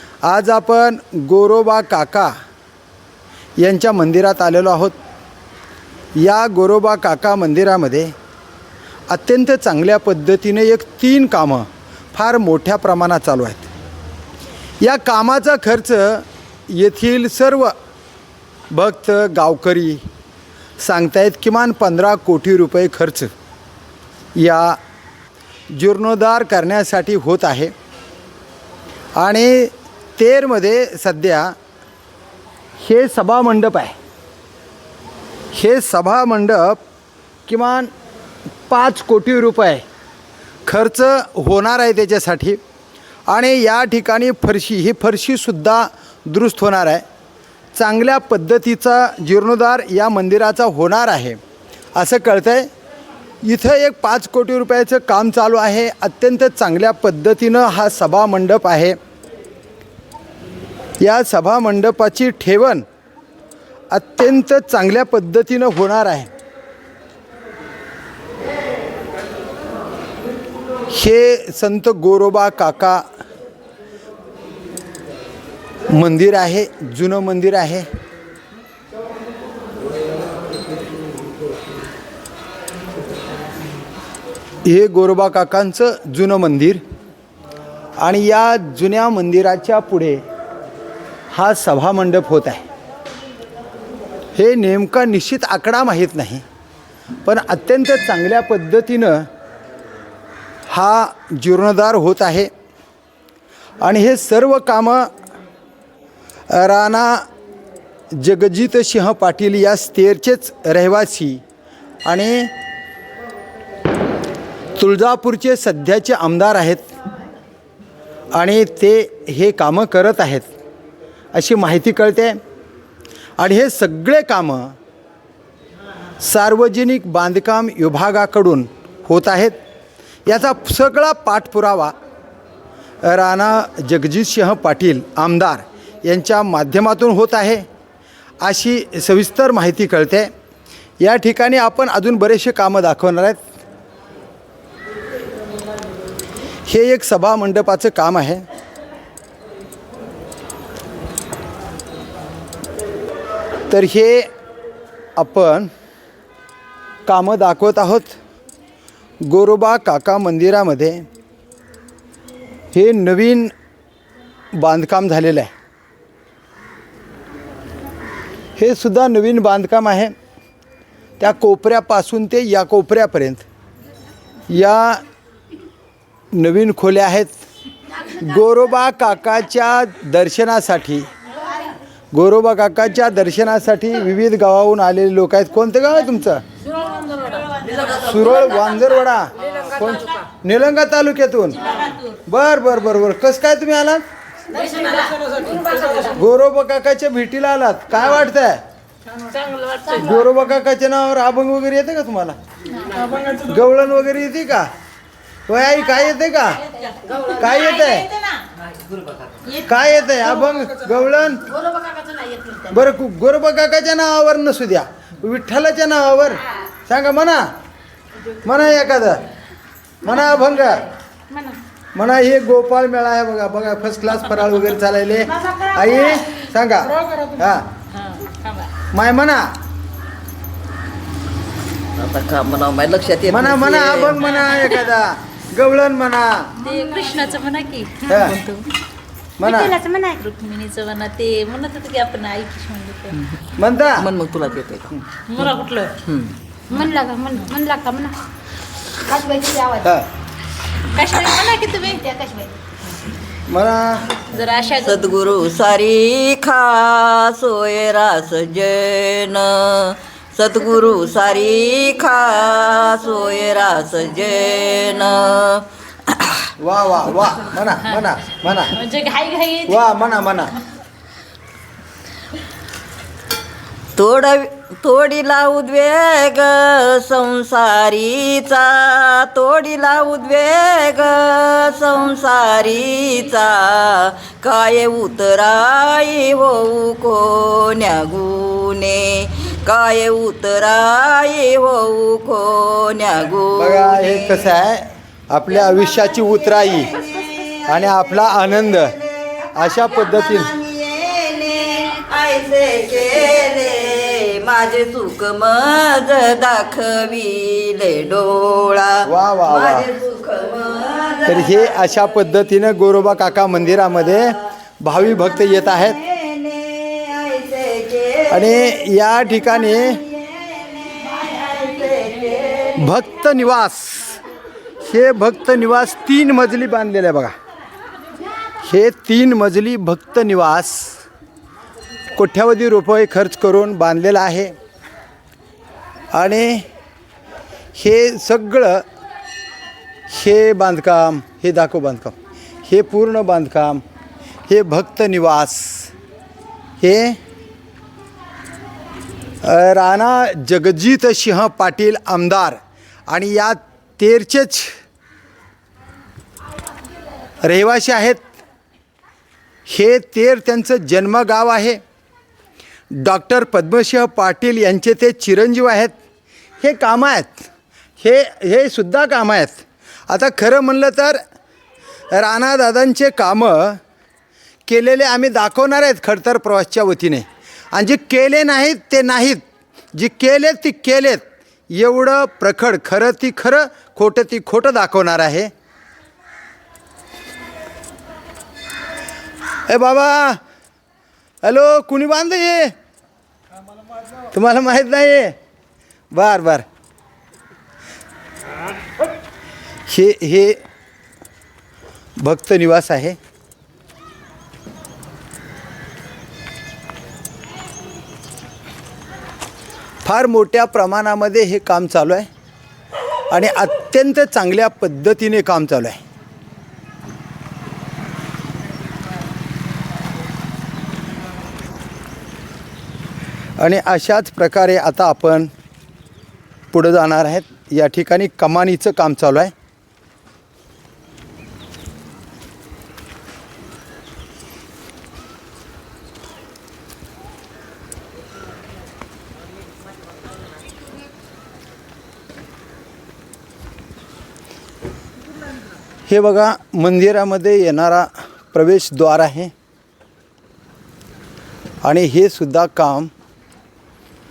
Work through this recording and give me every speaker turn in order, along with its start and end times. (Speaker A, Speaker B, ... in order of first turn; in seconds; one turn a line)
Speaker A: 0.2-2.3
Speaker A: 3.6-5.0
Speaker A: 6.2-8.1
Speaker A: 9.1-13.7
Speaker A: 14.8-17.7
Speaker A: 18.7-20.0
Speaker A: 20.8-23.3
Speaker A: 24.3-24.8
Speaker A: 25.7-27.7
Speaker A: 29.2-31.6
Speaker A: 32.8-33.9
Speaker A: 35.5-36.8
Speaker A: 37.5-37.9
Speaker A: 38.7-39.8
Speaker A: 40.7-42.6
Speaker A: 43.3-47.0
Speaker A: 47.7-51.4
Speaker A: 52.0-52.7
Speaker A: 53.4-59.0
Speaker A: 61.0-62.8
Speaker A: 63.9-66.3
Speaker A: 70.9-73.0
Speaker A: 75.9-77.9
Speaker A: 84.6-86.8
Speaker A: 88.0-90.2
Speaker A: 91.3-92.6
Speaker A: 94.3-96.4
Speaker A: 97.2-99.3
Speaker A: 100.7-102.5
Speaker A: 103.8-105.1
Speaker A: 106.5-107.2
Speaker A: 108.1-111.4
Speaker A: 112.0-112.5
Speaker A: 114.8-116.9
Speaker A: 118.3-120.5
Speaker A: 121.3-122.4
Speaker A: 123.4-124.8
Speaker A: 126.2-129.6
Speaker A: 130.2-131.9
Speaker A: 133.0-137.7
Speaker A: 138.4-140.3
Speaker A: 141.0-143.4
Speaker A: 146.7-148.4
Speaker A: 153.7-154.3
Speaker A: 155.2-155.7
Speaker A: 157.1-158.2
Speaker A: 159.2-161.0
Speaker A: 162.7-163.5
Speaker A: 164.5-165.5
Speaker A: 168.6-170.1
Speaker A: 171.2-173.4
Speaker A: 174.5-175.0
Speaker A: 176.3-177.3
Speaker A: 178.1-181.1
Speaker A: 182.1-186.4
Speaker A: 187.8-191.6
Speaker A: 192.2-194.0
Speaker B: 194.6-195.1
Speaker A: 195.9-198.6
Speaker A: 199.9-202.3
Speaker A: 203.3-204.7
Speaker A: 205.5-206.7
Speaker A: 207.2-208.1
Speaker A: 209.6-211.6
Speaker A: 212.6-217.5
Speaker A: 218.4-219.2
Speaker A: 220.0-220.8
Speaker A: 221.9-227.7
Speaker B: 227.9-228.7
Speaker A: 228.9-229.5
Speaker C: 232.0-234.2
Speaker A: 233.3-236.5
Speaker B: 236.6-238.7
Speaker A: 238.1-238.3
Speaker A: 239.4-239.8
Speaker D: 239.6-240.2
Speaker B: 240.2-243.2
Speaker C: 243.1-243.4
Speaker A: 243.6-244.1
Speaker C: 244.0-244.9
Speaker B: 245.3-246.0
Speaker C: 246.1-246.3
Speaker B: 246.7-247.5
Speaker D: 246.9-248.1
Speaker D: 249.1-249.8
Speaker A: 249.8-250.1
Speaker B: 250.9-252.1
Speaker D: 252.1-252.5
Speaker A: 253.5-254.2
Speaker B: 254.3-255.0
Speaker C: 254.8-266.5
Speaker A: 266.6-268.8
Speaker B: 268.8-269.8
Speaker A: 269.6-270.5
Speaker C: 274.0-294.5
Speaker A: 293.6-296.9
Speaker C: 295.6-311.9
Speaker A: 297.7-298.9
Speaker A: 299.6-300.5
Speaker A: 309.1-309.9
Speaker A: 311.3-316.0
Speaker C: 315.5-318.8
Speaker A: 318.3-320.0
Speaker C: 319.4-322.8
Speaker A: 322.8-324.2
Speaker A: 324.8-327.3
Speaker A: 328.6-331.0
Speaker A: 332.1-334.5
Speaker A: 336.1-336.6
Speaker A: 337.8-338.8
Speaker A: 340.1-342.1
Speaker A: 342.6-343.8
Speaker A: 344.5-345.9
Speaker A: 346.8-347.2
Speaker A: 349.4-354.8
Speaker A: 357.4-358.2
Speaker A: 359.7-361.8
Speaker A: 362.9-365.9
Speaker A: 366.6-367.5
Speaker A: 368.0-371.2
Speaker A: 372.1-373.8
Speaker A: 374.7-379.4
Speaker A: 379.9-385.5
Speaker A: 389.7-390.4
Speaker A: 391.4-392.7
Speaker A: 394.3-395.4
Speaker A: 396.1-396.6
Speaker A: 399.9-400.6
Speaker A: 402.2-403.2
Speaker A: 410.0-412.3
Speaker A: 413.3-416.0
Speaker A: 423.6-425.5
Speaker A: 426.7-429.5
Speaker A: 446.1-449.5
Speaker A: 451.8-453.1